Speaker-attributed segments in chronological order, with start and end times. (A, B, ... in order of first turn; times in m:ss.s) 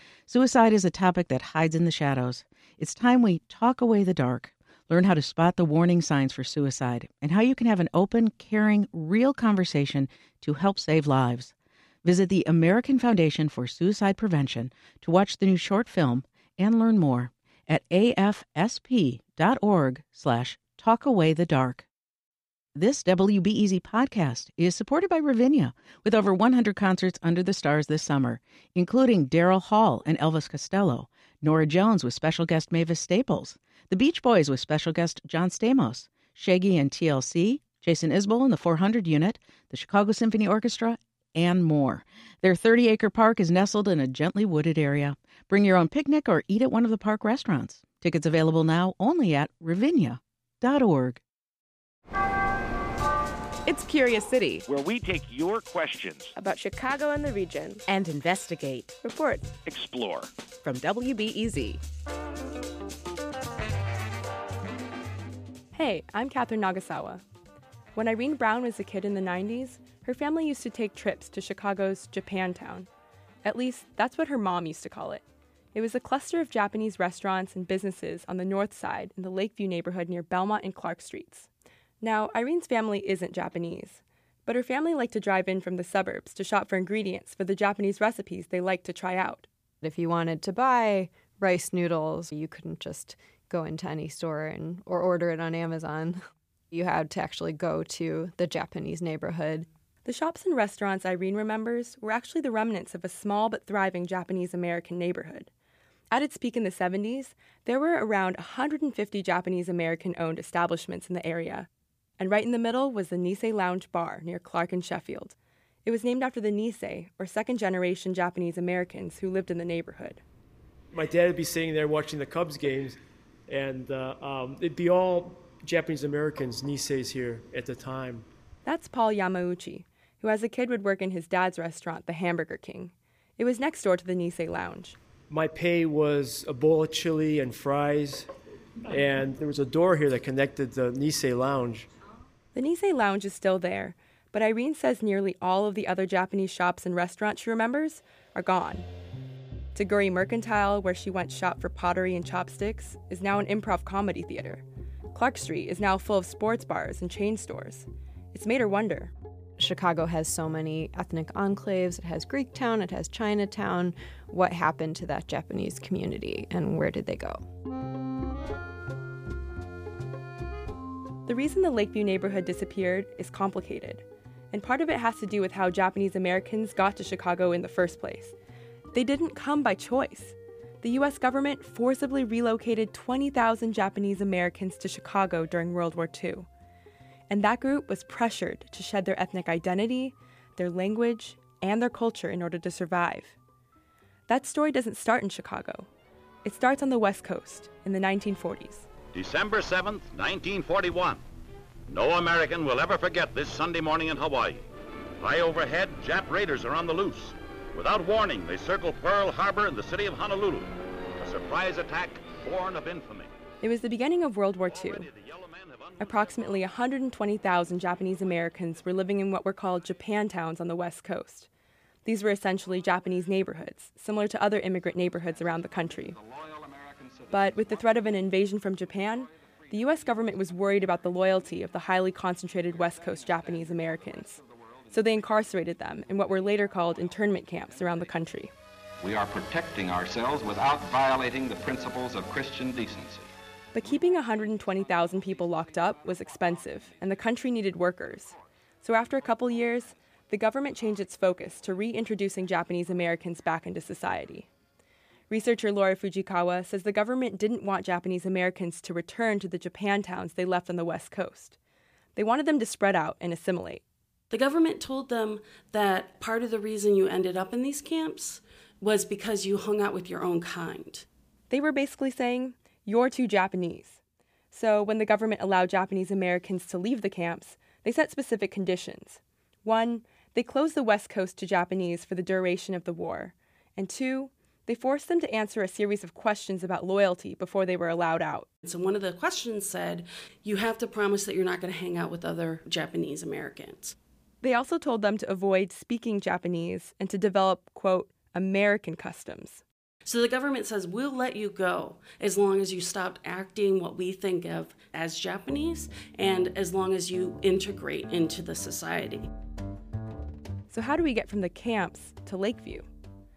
0:00.3-0:11.5 A
0:12.0-0:21.9 A
0:22.7-0:51.2 A
0:54.7-0:56.3 B
0:59.6-1:00.2 B
1:05.7-1:07.2 C
1:07.9-1:12.9 C
1:13.4-1:21.5 C
1:22.0-1:29.5 C
1:29.8-1:39.7 D
1:40.0-1:45.5 C
1:46.1-1:51.7 C
1:52.2-2:00.2 C
2:00.9-2:03.0 E
2:03.5-2:08.2 E
2:08.6-2:15.0 C
2:15.3-2:18.3 E
2:18.9-2:21.8 E
2:22.5-2:28.9 C
2:29.7-2:39.1 C
2:39.6-2:47.4 D
2:51.2-2:58.3 C
2:58.9-3:06.5 C
3:07.3-3:13.4 C
3:14.3-3:15.9 C
3:16.4-3:18.9 C
3:19.1-3:21.2 F
3:21.9-3:24.6 F
3:25.2-3:33.3 F
3:33.6-3:35.1 C
3:34.7-3:36.6 F
3:36.0-3:41.5 C
3:42.0-3:46.2 C
3:46.0-3:48.0 G
3:47.3-3:58.5 C
3:59.0-4:03.3 G
4:03.7-4:14.5 C
4:15.3-4:21.6 C
4:22.2-4:23.8 C
4:24.3-4:31.0 H
4:31.5-4:34.0 C
4:34.5-4:48.5 C
4:48.6-4:53.9 H
4:54.4-4:59.6 C
5:00.0-5:09.3 H
5:10.7-5:12.9 C